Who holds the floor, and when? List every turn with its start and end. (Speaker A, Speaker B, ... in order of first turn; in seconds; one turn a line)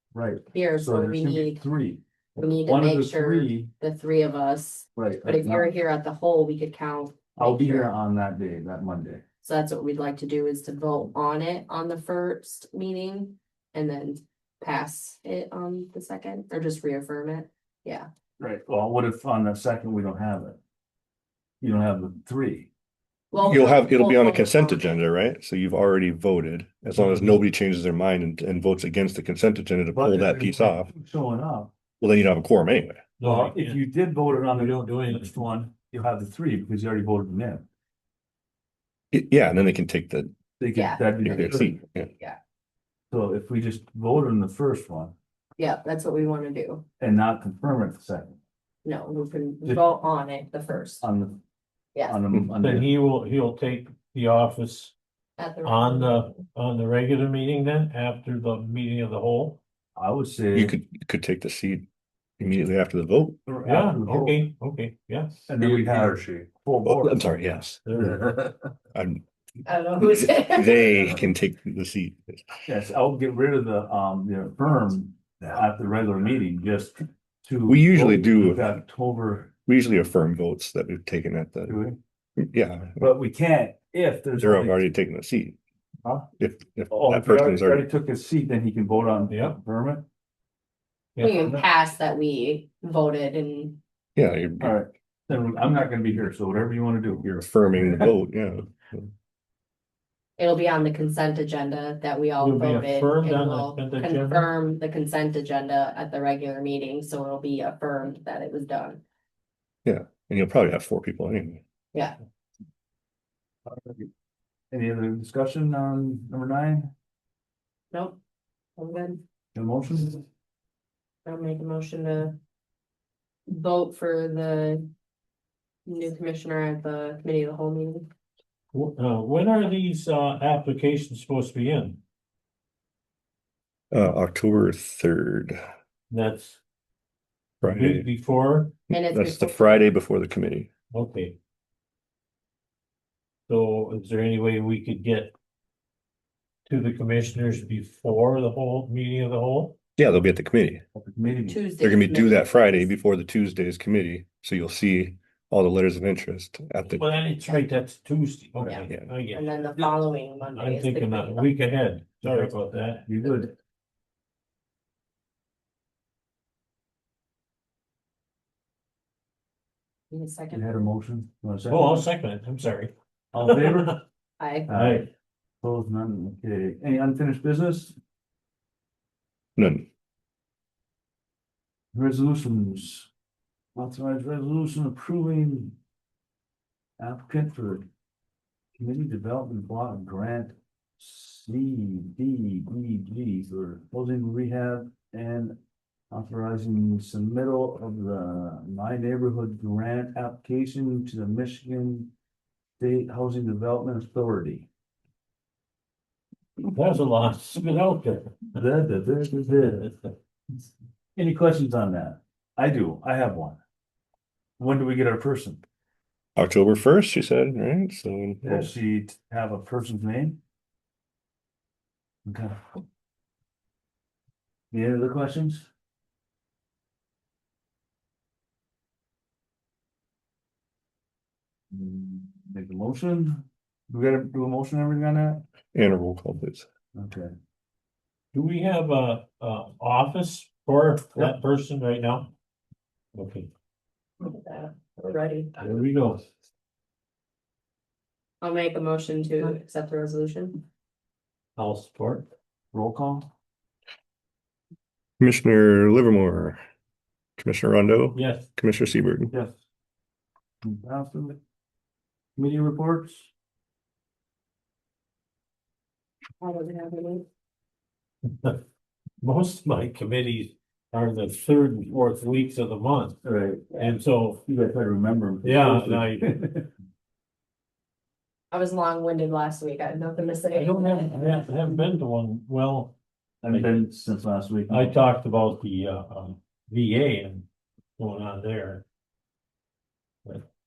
Speaker A: 0.1-3.7
Speaker B: 0.5-1.6
Speaker B: 2.4-7.9
Speaker A: 4.9-5.7
Speaker A: 7.3-9.2
Speaker B: 9.4-18.1
Speaker A: 18.4-20.6
Speaker A: 21.6-22.7
Speaker B: 23.3-24.8
Speaker C: 23.4-30.9
Speaker D: 26.9-27.4
Speaker A: 29.9-31.7
Speaker C: 32.0-33.0
Speaker D: 33.2-35.4
Speaker A: 33.2-37.7
Speaker C: 39.1-40.3
Speaker A: 40.6-41.8
Speaker B: 40.7-41.0
Speaker C: 41.2-42.1
Speaker A: 43.1-45.1
Speaker B: 45.6-46.8
Speaker A: 47.0-48.4
Speaker B: 48.8-51.0
Speaker A: 51.0-51.4
Speaker A: 52.0-52.9
Speaker D: 52.6-54.9
Speaker B: 55.4-56.4
Speaker D: 55.6-59.6
Speaker A: 60.0-60.8
Speaker C: 60.5-61.9
Speaker C: 62.4-63.4
Speaker A: 63.5-64.4
Speaker D: 63.6-65.5
Speaker A: 65.5-67.2
Speaker C: 66.8-67.8
Speaker D: 67.8-68.2
Speaker A: 67.9-68.3
Speaker C: 68.9-69.2
Speaker B: 69.6-70.9
Speaker C: 70.2-72.6
Speaker A: 72.7-79.5
Speaker C: 77.7-78.8
Speaker C: 79.7-81.8
Speaker A: 81.7-82.0
Speaker C: 82.4-83.1
Speaker A: 83.0-84.8
Speaker C: 84.4-85.6
Speaker C: 86.4-87.8
Speaker A: 86.9-90.0
Speaker D: 89.3-89.6
Speaker D: 91.2-91.6
Speaker B: 91.2-93.8
Speaker C: 94.1-94.8
Speaker A: 94.6-98.1
Speaker C: 97.2-99.1
Speaker B: 100.4-109.0
Speaker D: 102.4-104.5
Speaker C: 109.8-111.6
Speaker A: 113.7-114.1
Speaker A: 114.7-116.9
Speaker B: 117.9-118.2
Speaker B: 118.8-119.2
Speaker A: 119.5-120.2
Speaker B: 121.2-122.4
Speaker B: 123.5-124.9
Speaker B: 125.8-128.1
Speaker D: 128.7-132.0
Speaker C: 133.9-135.6
Speaker D: 136.1-136.6
Speaker C: 137.6-138.1
Speaker D: 137.6-138.8
Speaker B: 138.9-139.8
Speaker C: 138.9-140.7
Speaker D: 140.9-141.4
Speaker D: 143.5-145.3
Speaker D: 146.7-149.8
Speaker C: 150.0-150.8
Speaker A: 150.9-151.6
Speaker B: 151.5-152.9
Speaker C: 151.8-157.1
Speaker D: 157.0-159.9
Speaker B: 158.6-161.5
Speaker C: 158.8-159.1
Speaker D: 160.5-163.1
Speaker A: 162.2-163.5
Speaker B: 170.1-170.7
Speaker A: 170.5-172.1
Speaker D: 171.7-173.9
Speaker A: 173.3-174.0
Speaker B: 174.4-174.8
Speaker A: 174.7-175.1
Speaker D: 174.7-175.1
Speaker A: 175.6-177.9
Speaker C: 179.6-179.8
Speaker A: 181.9-183.1
Speaker A: 183.7-185.7
Speaker A: 187.0-187.9
Speaker A: 188.8-195.6
Speaker A: 196.1-202.1
Speaker A: 202.8-204.7
Speaker D: 206.6-208.6
Speaker A: 208.5-209.9
Speaker A: 211.2-213.6
Speaker A: 214.6-215.6
Speaker C: 216.4-218.7
Speaker A: 218.4-220.4
Speaker A: 222.2-222.6
Speaker A: 224.7-225.7
Speaker A: 231.7-235.4
Speaker C: 235.7-236.7
Speaker A: 236.9-237.3
Speaker D: 238.3-242.3
Speaker D: 243.1-243.5
Speaker B: 244.2-245.5
Speaker D: 245.6-246.2
Speaker B: 248.4-250.6
Speaker D: 251.6-252.3
Speaker A: 252.7-253.3
Speaker C: 255.2-256.6
Speaker C: 257.4-259.3
Speaker D: 258.1-258.4
Speaker A: 259.3-259.6
Speaker A: 260.6-261.4
Speaker A: 262.4-263.3
Speaker B: 266.4-267.2
Speaker D: 269.2-273.2
Speaker A: 273.2-273.7
Speaker B: 273.7-274.0
Speaker D: 273.8-274.4
Speaker A: 274.4-276.7
Speaker D: 275.4-276.4
Speaker B: 278.5-281.4
Speaker D: 280.5-282.9
Speaker A: 283.4-285.0
Speaker D: 283.5-283.8
Speaker D: 284.7-287.4
Speaker D: 288.0-288.8